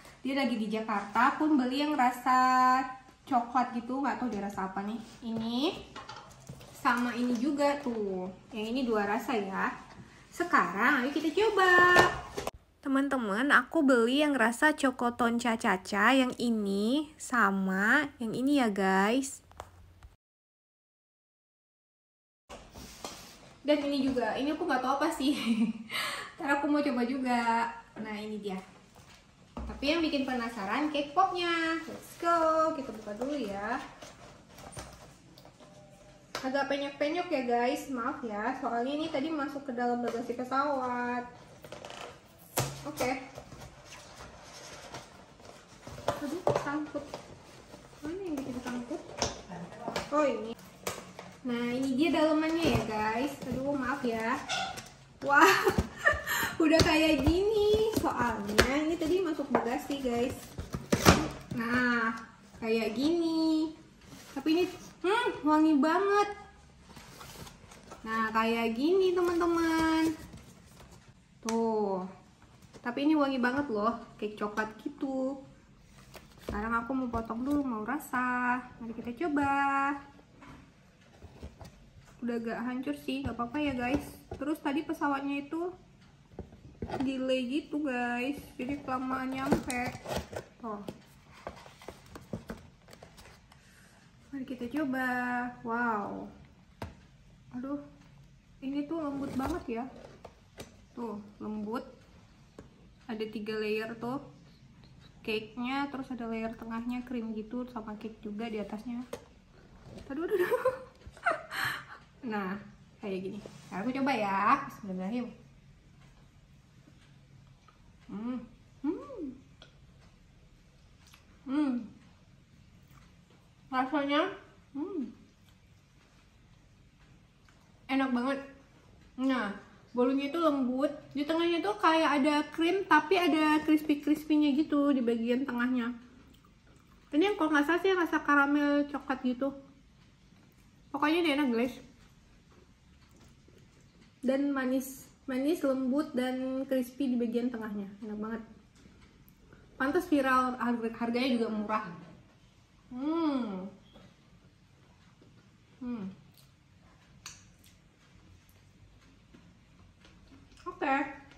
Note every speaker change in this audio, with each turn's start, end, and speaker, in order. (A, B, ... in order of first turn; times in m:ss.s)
0:00.2-0:05.8 A
0:06.8-0:09.7 A
0:10.3-0:12.1 A
0:12.9-0:19.4 A
0:23.6-0:28.6 A
0:29.7-0:33.8 A
0:36.4-0:41.3 A
0:42.8-0:43.2 A
0:46.2-0:47.1 A
0:48.0-0:49.0 A
0:50.0-0:50.6 A
0:51.4-0:54.4 A
0:55.2-1:00.4 A
1:01.3-1:03.7 A
1:04.3-1:06.3 A
1:08.0-1:10.1 A
1:11.4-1:12.1 A
1:12.8-1:15.4 A
1:16.5-1:20.0 A
1:22.2-1:25.7 A
1:27.0-1:30.0 A
1:30.6-1:30.9 A
1:34.3-1:36.3 A
1:37.5-1:37.8 A
1:38.6-1:39.9 A
1:41.0-1:41.8 A
1:43.1-1:44.2 A
1:45.2-1:49.1 A
1:50.1-1:55.3 A
1:58.1-1:59.4 A
2:01.5-2:01.9 A
2:03.7-2:05.1 A
2:07.9-2:08.4 A
2:09.2-2:15.9 A
2:17.1-2:19.5 A
2:20.9-2:21.8 A
2:24.2-2:28.4 A
2:29.8-2:32.0 A
2:32.9-2:33.7 A
2:35.8-2:36.1 A
2:40.6-2:41.1 A